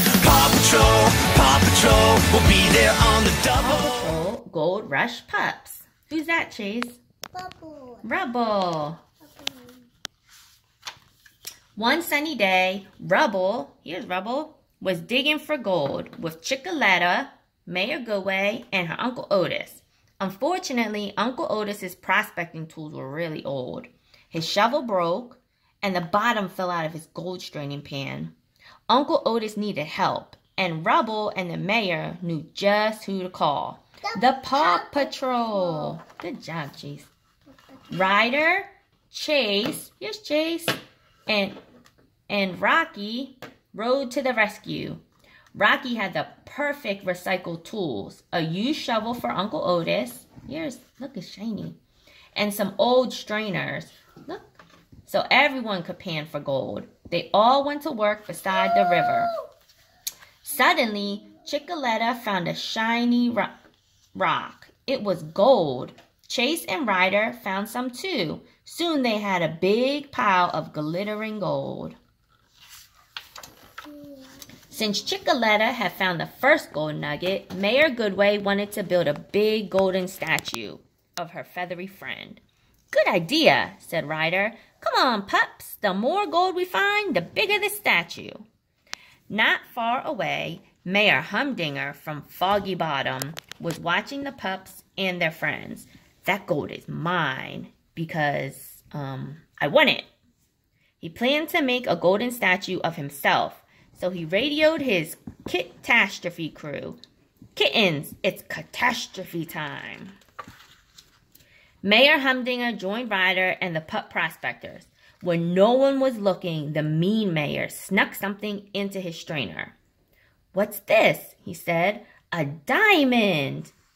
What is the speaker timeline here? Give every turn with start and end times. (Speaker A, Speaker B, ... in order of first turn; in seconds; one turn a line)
Speaker A: 0.2-3.6
Speaker B: 3.6-7.0
Speaker C: 7.3-8.0
Speaker B: 8.0-9.0
Speaker C: 9.2-9.8
Speaker B: 11.8-28.3
Speaker B: 28.9-37.1
Speaker C: 34.1-35.1
Speaker B: 37.9-41.6
Speaker B: 42.3-45.0
Speaker B: 45.5-51.8
Speaker B: 52.3-59.3
Speaker B: 60.4-63.5
Speaker B: 64.1-72.0
Speaker B: 74.7-88.5
Speaker B: 89.3-100.1
Speaker B: 101.0-107.0
Speaker B: 107.5-110.2
Speaker B: 111.8-119.7
Speaker B: 120.5-123.7